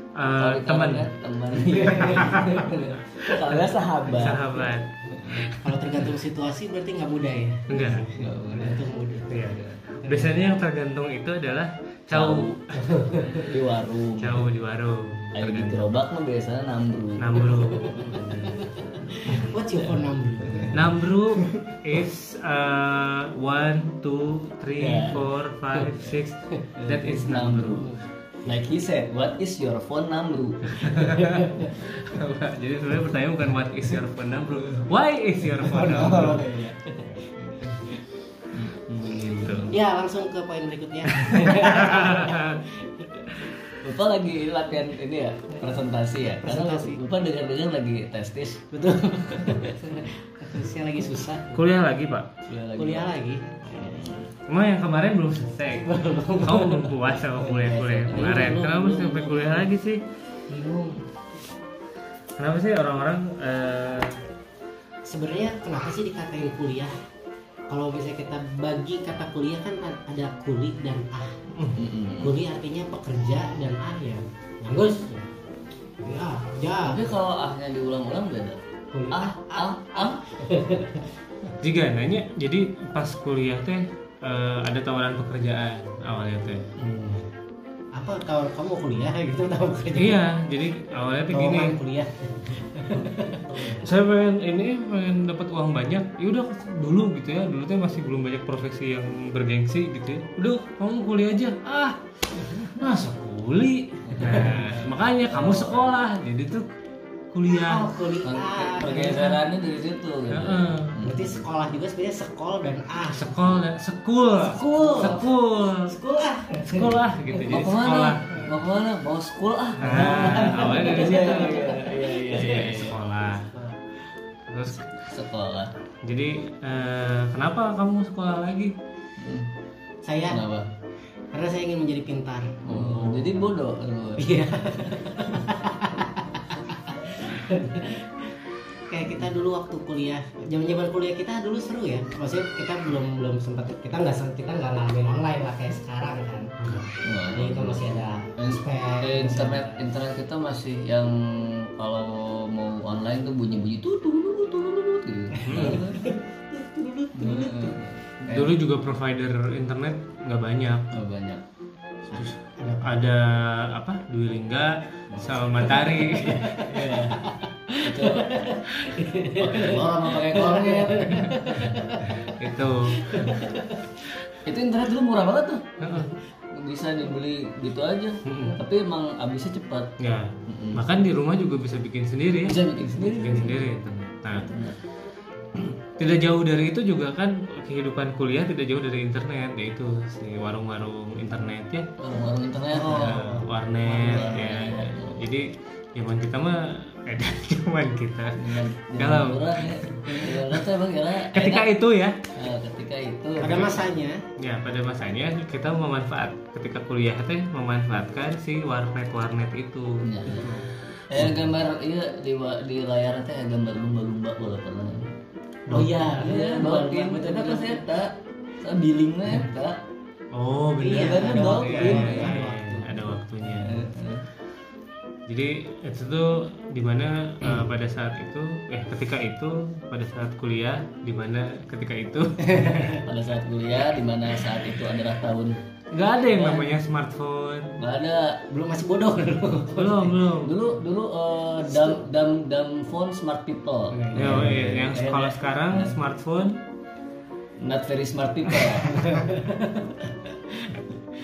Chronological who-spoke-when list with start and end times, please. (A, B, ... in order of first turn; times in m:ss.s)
0:00.2-0:01.1 A
0:00.4-0:04.5 B
0:01.8-0:02.3 C
0:01.9-0:02.7 A
0:04.1-0:05.6 A
0:05.1-0:05.5 B
0:05.6-0:07.8 C
0:07.7-0:08.1 A
0:07.7-0:08.8 B
0:08.4-0:10.3 C
0:09.3-0:12.7 A
0:12.1-0:12.6 B
0:12.7-0:13.5 C
0:13.3-0:14.5 B
0:14.2-0:15.9 A
0:15.3-0:18.2 B
0:17.2-0:18.5 A
0:17.5-0:20.8 C
0:20.4-0:21.6 B
0:20.7-0:27.9 A
0:24.8-0:25.2 B
0:26.8-0:27.9 B
0:28.4-0:31.5 B
0:30.8-0:36.5 A
0:31.0-0:31.7 C
0:35.6-0:36.3 C
0:35.7-0:37.9 B
0:38.5-0:39.8 B
0:39.0-0:39.7 A
0:39.7-0:43.3 C
0:41.2-0:42.6 A
0:43.8-0:48.7 B
0:46.4-0:47.0 C
0:48.7-0:51.6 C
0:49.4-0:49.7 B
0:51.5-0:52.3 A
0:52.5-0:53.1 B
0:52.8-0:54.0 C
0:53.7-0:54.3 B
0:54.5-1:00.0 A
0:55.8-0:56.9 C
0:57.5-0:58.3 B
0:58.1-0:59.7 C
1:00.5-1:01.0 C
1:02.4-1:04.2 A
1:05.0-1:06.9 C
1:07.7-1:11.4 C
1:11.8-1:12.3 B
1:12.2-1:15.3 C
1:16.0-1:17.1 C
1:16.8-1:20.2 B
1:18.9-1:21.1 C
1:21.6-1:26.7 A
1:26.8-1:27.2 C
1:27.9-1:30.2 C
1:29.9-1:31.8 A
1:31.3-1:33.9 C
1:33.6-1:42.0 A
1:42.6-1:46.6 A
1:44.0-1:46.0 B
1:44.2-1:44.5 C
1:47.3-1:47.9 A
1:47.6-1:49.4 C
1:48.2-1:51.4 B
1:50.3-1:51.0 A
1:51.0-1:53.6 C
1:53.1-1:55.9 A
1:54.3-1:55.2 C
1:54.5-1:55.3 B
1:55.8-1:57.4 C
1:56.6-1:58.4 A
1:57.5-2:03.0 B
1:59.8-2:03.5 A
1:59.8-2:02.1 C
2:04.5-2:05.0 A
2:05.0-2:05.7 B
2:06.0-2:08.7 A
2:09.2-2:09.5 B
2:10.0-2:10.4 C
2:10.3-2:10.7 B
2:11.3-2:12.6 C
2:12.6-2:15.3 B
2:12.7-2:13.3 A
2:14.2-2:18.3 C
2:18.9-2:26.5 C
2:26.6-2:26.9 A
2:27.0-2:36.1 B
2:27.3-2:29.8 C
2:35.4-2:37.7 C
2:35.5-2:35.8 A
2:37.1-2:38.6 B
2:38.3-2:40.9 A
2:40.9-2:41.4 B
2:42.1-2:46.4 A
2:42.6-2:43.0 C
2:45.1-2:45.4 B
2:45.6-2:52.3 C
2:46.1-2:47.2 B
2:47.8-2:48.5 B
2:49.3-2:51.5 B
2:52.2-2:53.3 A
2:52.9-2:53.9 C
2:54.4-2:55.6 B
2:55.8-2:56.1 A
2:56.5-2:59.9 B
2:58.2-2:58.6 A
3:00.0-3:04.6 A
3:00.4-3:00.8 B
3:02.4-3:03.6 B
3:04.4-3:04.7 B
3:06.0-3:11.9 A
3:12.0-3:13.2 B
3:12.7-3:14.5 C
3:12.9-3:20.3 A
3:14.0-3:15.2 B
3:18.4-3:21.7 B
3:21.3-3:22.2 A
3:22.3-3:23.9 B
3:23.4-3:24.2 C
3:24.4-3:30.0 A
3:30.0-3:30.6 B
3:30.2-3:30.7 C
3:31.1-3:35.1 B
3:35.7-3:37.8 C
3:35.7-3:39.8 B
3:40.3-3:43.8 A
3:40.8-3:43.1 C
3:40.9-3:42.4 B
3:43.4-3:44.2 B
3:45.3-3:53.0 A
3:52.4-3:53.0 C
3:53.0-3:55.6 B
3:55.9-3:57.8 A
3:56.3-3:56.7 B
3:57.8-3:58.4 B
3:58.5-4:00.2 C
3:59.7-4:00.6 A
4:00.4-4:05.9 B
4:03.9-4:04.5 C
4:04.1-4:06.6 A
4:07.6-4:09.1 B
4:08.8-4:09.8 C